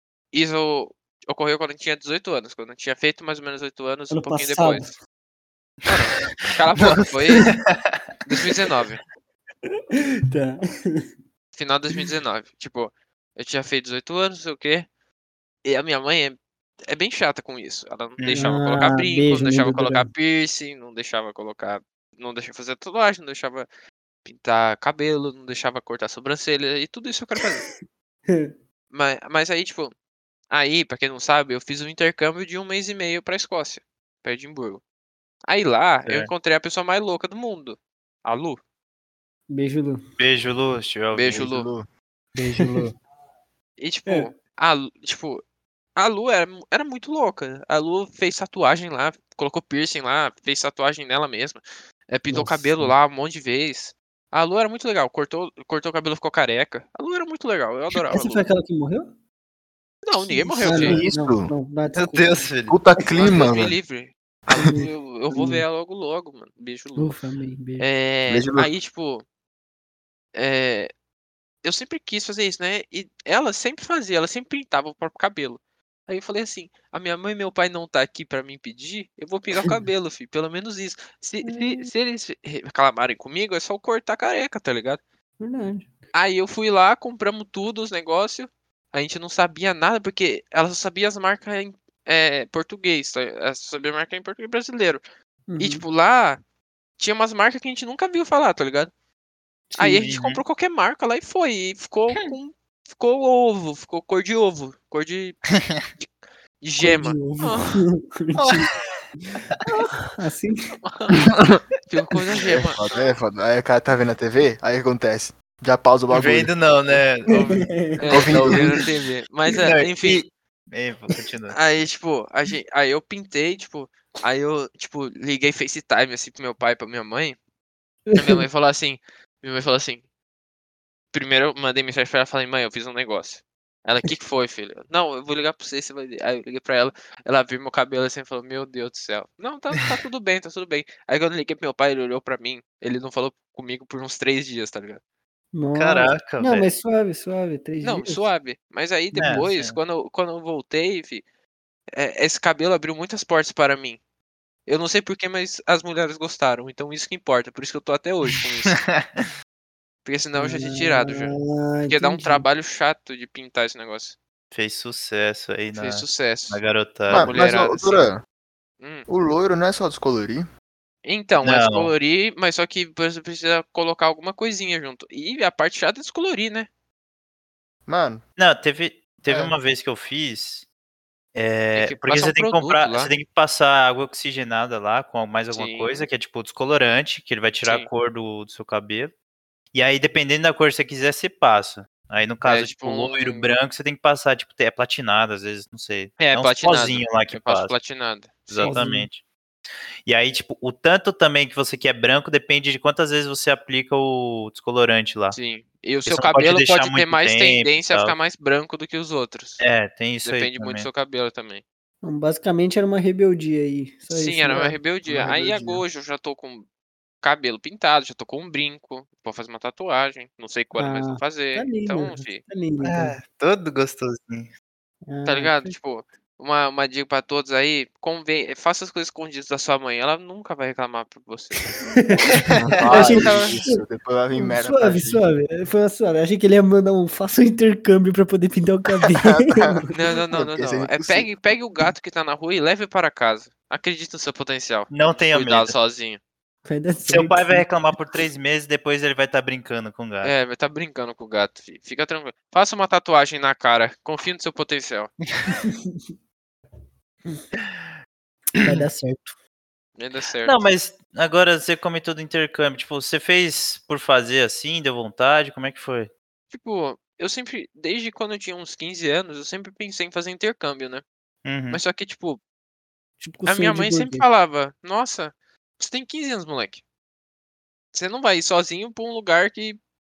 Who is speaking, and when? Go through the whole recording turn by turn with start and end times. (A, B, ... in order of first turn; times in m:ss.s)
0:00.3-0:04.9 A
0:04.1-0:05.0 B
0:05.9-0:07.5 A
0:06.4-0:08.1 C
0:08.2-0:09.0 A
0:10.3-0:11.1 B
0:11.5-0:14.8 A
0:15.6-0:16.4 A
0:16.9-0:23.7 A
0:18.2-0:18.6 C
0:18.3-0:20.1 B
0:24.2-0:27.6 A
0:28.3-0:28.5 B
0:28.9-0:29.9 A
0:30.5-0:34.8 A
0:35.4-0:38.6 A
0:39.5-0:40.0 B
0:40.2-0:41.4 C
0:41.1-0:41.7 A
0:41.3-0:41.9 D
0:42.4-0:42.9 B
0:43.8-0:45.4 A
0:46.0-0:58.4 A
0:52.3-0:53.0 B
0:57.9-0:59.1 B
1:00.0-1:01.0 A
1:00.2-1:02.5 B
1:00.6-1:01.5 D
1:01.9-1:02.8 C
1:02.7-1:03.8 D
1:03.1-1:07.2 A
1:04.5-1:05.6 B
1:07.0-1:07.9 B
1:07.8-1:09.2 A
1:08.3-1:08.7 D
1:10.3-1:10.9 A
1:11.6-1:25.0 A
1:21.4-1:21.9 B
1:25.4-1:25.9 B
1:26.1-1:35.0 A
1:35.5-1:35.8 B
1:35.6-1:36.4 A
1:37.0-1:38.9 A
1:39.7-1:40.4 C
1:39.8-1:45.4 A
1:45.5-1:45.8 C
1:46.6-1:47.8 A
1:46.8-1:48.7 B
1:48.4-1:49.6 C
1:49.3-1:50.7 B
1:50.8-1:51.3 A
1:51.9-1:52.8 A
1:52.4-1:56.5 D
1:56.1-1:58.6 C
1:57.3-1:58.8 B
1:58.0-2:00.2 A
1:58.1-1:58.8 D
1:59.5-2:01.6 C
2:01.5-2:07.4 A
2:08.1-2:08.4 B
2:08.1-2:10.0 A
2:11.1-2:25.0 A
2:25.5-2:28.3 B
2:25.7-2:26.7 C
2:27.8-2:31.2 A
2:29.1-2:29.8 C
2:31.9-2:34.0 A
2:34.6-2:38.8 A
2:38.6-2:39.3 C
2:40.0-2:41.4 A
2:40.4-2:42.5 B
2:41.9-2:44.1 A
2:44.5-2:47.4 C
2:45.7-2:48.1 A
2:47.1-2:48.2 D
2:48.8-2:49.1 A
2:49.1-2:50.5 D
2:51.0-2:56.7 A
2:51.4-2:51.9 C
2:57.9-2:58.2 D
2:58.4-3:00.6 C
3:01.3-3:09.1 C
3:01.7-3:03.1 A
3:05.5-3:06.0 A
3:07.6-3:07.9 A
3:09.7-3:17.8 C
3:12.4-3:13.5 A
3:16.2-3:18.8 A
3:18.5-3:19.2 C
3:18.6-3:19.1 B
3:20.0-3:25.4 C
3:25.3-3:29.6 A
3:26.0-3:28.2 C
3:29.6-3:30.9 C
3:30.2-3:31.6 A
3:32.0-3:34.8 B
3:34.1-3:36.6 A
3:35.1-3:35.8 D
3:37.2-3:42.4 A
3:40.7-3:43.2 B
3:42.8-3:44.5 C
3:45.1-3:45.8 B
3:45.2-3:51.7 A
3:51.8-3:53.8 B
3:52.5-3:55.2 D
3:52.5-3:53.6 C
3:52.8-3:53.6 A
3:54.3-3:59.9 B
3:59.1-4:01.3 D
3:59.9-4:06.2 A
4:04.9-4:05.8 C
4:06.6-4:07.7 B
4:07.1-4:10.3 C
4:10.2-4:15.1 A
4:15.5-4:16.0 B
4:17.6-4:17.8 C
4:18.6-4:18.8 C
4:18.6-4:19.4 B
4:20.0-4:20.6 A
4:20.4-4:26.1 C
4:26.5-4:31.0 A
4:31.4-4:31.8 C
4:31.7-4:32.4 A
4:33.2-4:34.2 B
4:33.4-4:36.8 A
4:37.9-4:39.8 A